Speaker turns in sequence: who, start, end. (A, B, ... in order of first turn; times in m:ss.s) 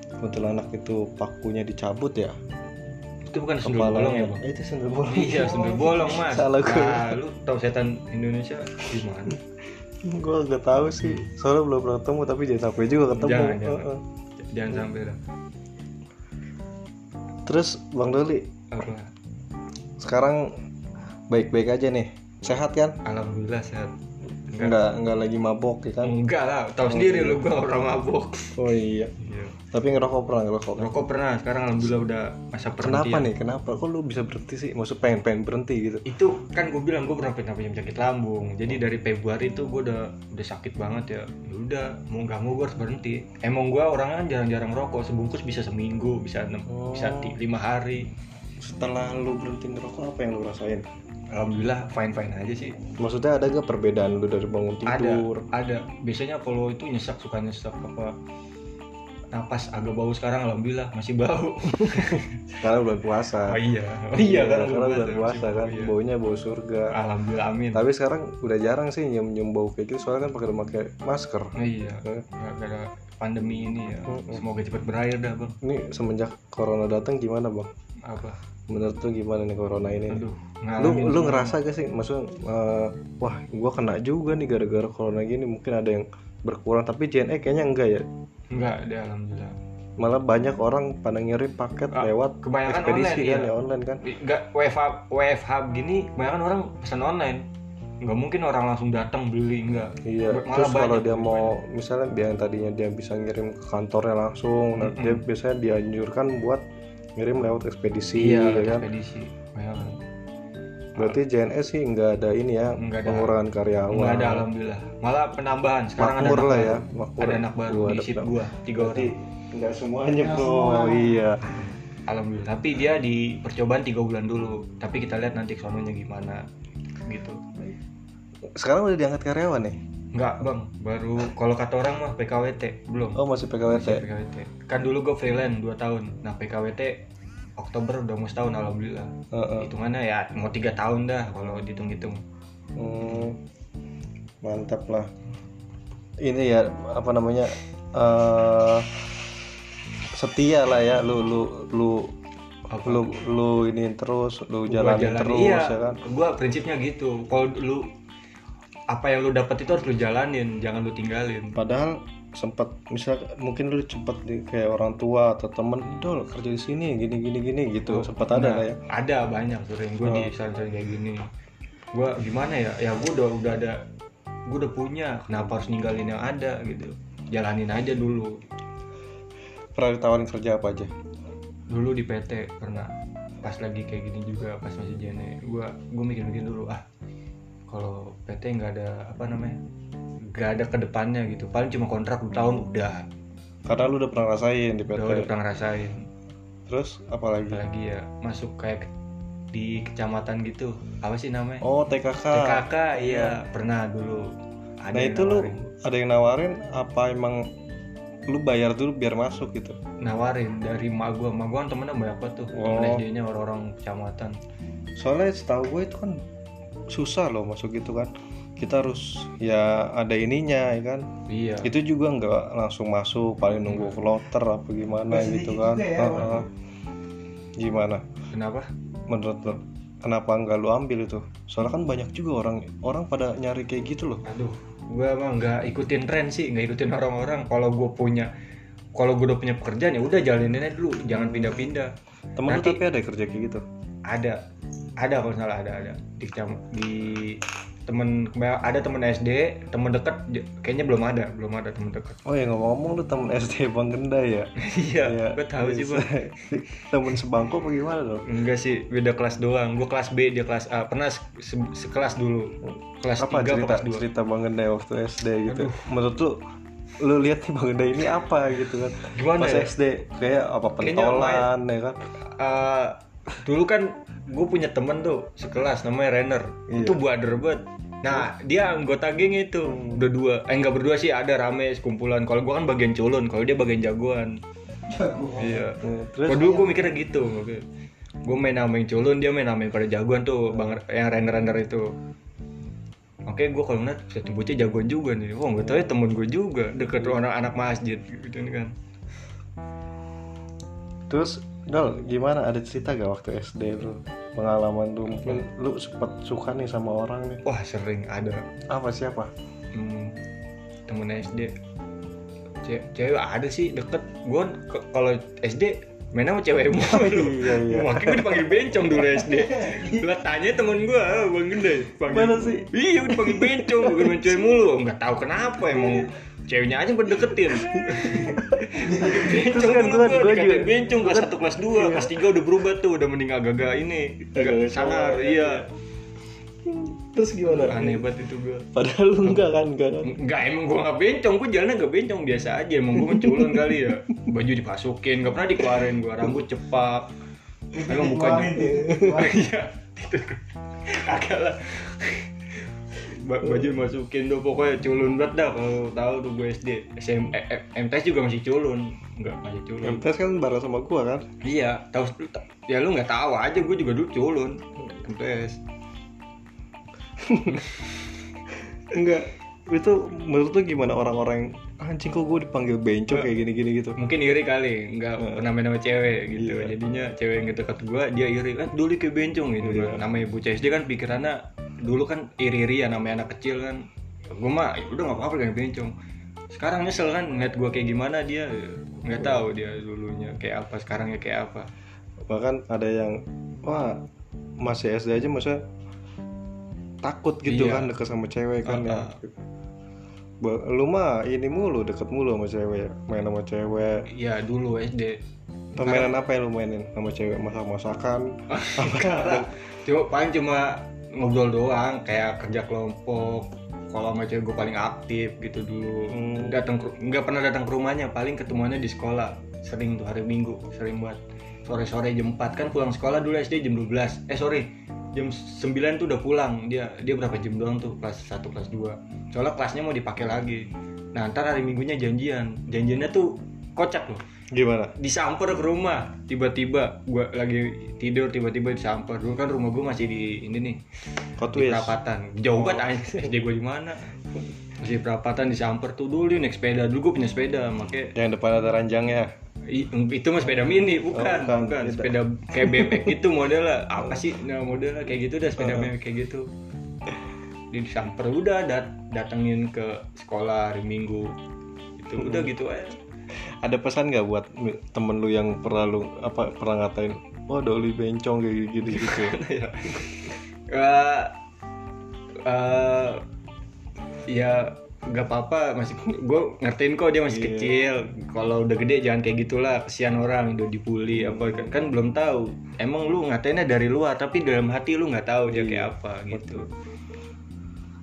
0:00.2-0:02.4 A
0:03.3-0:04.4 B
0:03.6-0:07.2 A
0:05.1-0:09.4 B
0:10.0-0:14.0 A
0:11.0-0:11.3 B
0:13.1-0:15.2 B
0:17.5-0:18.5 A
0:18.7-0:19.1 B
0:20.0-0:20.5 A
0:21.3-0:23.0 A
0:23.0-0:23.9 B
0:24.5-0:24.8 B
0:24.6-0:26.2 A
0:26.0-0:28.6 B
0:26.9-0:27.4 A
0:28.6-0:29.1 A
0:29.2-0:29.6 B
0:29.7-0:30.9 A
0:30.8-0:33.3 B
0:32.8-0:36.0 A
0:36.0-0:48.1 B
0:46.7-0:47.4 A
0:48.6-0:50.9 A
0:51.3-0:52.8 B
0:53.0-0:55.4 A
0:54.9-0:58.2 B
0:59.3-1:02.6 B
1:02.6-1:03.6 A
1:03.5-1:05.9 B
1:04.1-1:07.0 A
1:06.9-1:07.8 B
1:07.7-1:11.5 A
1:11.6-1:15.6 B
1:14.1-1:14.4 A
1:15.6-1:17.7 A
1:18.0-1:18.4 B
1:18.7-1:20.3 A
1:20.1-1:21.6 B
1:20.8-1:28.1 A
1:28.5-1:29.6 B
1:30.0-1:34.0 A
1:31.9-1:33.5 B
1:34.0-1:37.5 B
1:38.0-1:41.6 B
1:40.0-1:46.6 A
1:44.8-1:45.2 B
1:47.2-1:48.9 A
1:48.2-1:50.0 B
1:51.0-1:54.5 A
1:52.7-1:53.4 B
1:53.9-1:59.1 B
1:56.0-2:01.5 A
2:00.2-2:01.2 C
2:02.1-2:06.4 B
2:07.0-2:07.4 B
2:08.6-2:09.8 A
2:10.1-2:17.0 B
2:13.2-2:14.0 A
2:17.6-2:22.2 B
2:19.3-2:19.7 A
2:22.8-2:23.4 A
2:24.4-2:25.1 A
2:26.2-2:28.9 A
2:30.1-2:32.1 A
2:32.7-2:33.1 B
2:32.8-2:36.0 A
2:34.7-2:37.9 B
2:38.9-2:41.6 B
2:41.6-2:48.8 A
2:47.9-2:51.2 B
2:50.0-2:50.3 A
2:51.9-2:53.8 B
2:54.5-2:58.4 B
2:59.8-3:00.9 A
3:01.7-3:06.8 B
3:07.7-3:09.6 B
3:10.3-3:13.1 B
3:13.7-3:15.3 A
3:15.0-3:16.1 B
3:16.7-3:17.6 A
3:17.5-3:18.9 B
3:19.5-3:21.6 B
3:21.6-3:23.4 A
3:22.3-3:25.7 B
3:24.9-3:27.4 A
3:28.3-3:29.8 A
3:30.0-3:34.4 B
3:32.5-3:33.0 A
3:35.0-3:36.2 A
3:36.9-3:41.1 A
3:41.3-3:41.7 B
3:41.6-3:46.5 A
3:43.7-3:44.0 B
3:45.1-3:46.3 C
3:47.6-3:48.0 A
3:48.3-3:48.7 B
3:49.1-3:54.2 A
3:54.2-3:58.3 B
3:59.0-4:01.9 B
4:01.2-4:01.7 A
4:02.4-4:03.6 A
4:02.5-4:02.8 B
4:04.1-4:04.4 B
4:05.0-4:12.2 B
4:12.2-4:14.5 A
4:14.6-4:16.5 B
4:15.0-4:18.3 A
4:18.2-4:24.0 B
4:22.6-4:26.4 A
4:25.5-4:25.9 B
4:27.0-4:32.0 A
4:29.1-4:29.7 B
4:30.8-4:31.5 B
4:32.2-4:44.4 B
4:36.7-4:37.0 A
4:39.7-4:40.0 A
4:44.9-4:45.6 C
4:45.4-4:47.6 B
4:45.8-4:46.7 A
4:48.2-4:51.9 B
4:50.5-4:50.8 A
4:53.3-4:58.7 B
5:01.1-5:07.4 A
5:07.4-5:08.4 B
5:08.7-5:09.3 A
5:09.7-5:10.2 B
5:10.9-5:11.5 B
5:12.6-5:35.7 B
5:16.8-5:19.0 A
5:19.4-5:20.0 C
5:22.1-5:24.4 A
5:25.7-5:26.1 A
5:27.5-5:32.2 A
5:28.8-5:29.3 C
5:34.3-5:35.6 A
5:36.7-5:38.0 A
5:37.4-5:38.7 B
5:38.7-5:40.2 A
5:40.0-5:47.1 B
5:43.0-5:44.0 A
5:47.7-5:49.4 C
5:47.8-5:52.3 B
5:48.6-5:49.3 A
5:52.9-6:00.0 B
5:59.8-6:01.3 A
6:01.4-6:05.6 B
6:07.2-6:07.6 A
6:08.9-6:14.0 A
6:14.0-6:25.9 B
6:15.2-6:15.5 A
6:16.4-6:16.7 A
6:19.6-6:20.0 A
6:26.5-6:31.7 B
6:29.2-6:29.4 A
6:32.2-6:34.0 A
6:34.6-6:35.6 A
6:37.0-6:39.4 A
6:37.5-6:37.9 B
6:38.6-6:39.2 B
6:40.4-6:44.1 A
6:44.1-6:45.2 B
6:45.8-6:46.1 B
6:45.8-6:49.5 A
6:48.5-7:14.2 B
6:56.1-6:56.6 A
7:14.5-7:14.9 A
7:15.0-7:20.8 B
7:21.4-7:22.0 A
7:21.5-7:24.0 B
7:22.6-7:23.3 A
7:24.8-7:28.2 B
7:28.2-7:29.3 A
7:29.7-7:36.5 B
7:31.1-7:33.2 A
7:35.6-7:35.9 A
7:37.7-7:41.4 B
7:42.0-7:43.0 B
7:42.2-7:42.5 A
7:43.6-7:49.4 A
7:48.9-7:51.4 B
7:52.4-7:53.2 B
7:54.3-8:06.7 B
7:57.3-7:57.8 A
8:01.2-8:01.6 A
8:05.5-8:06.6 A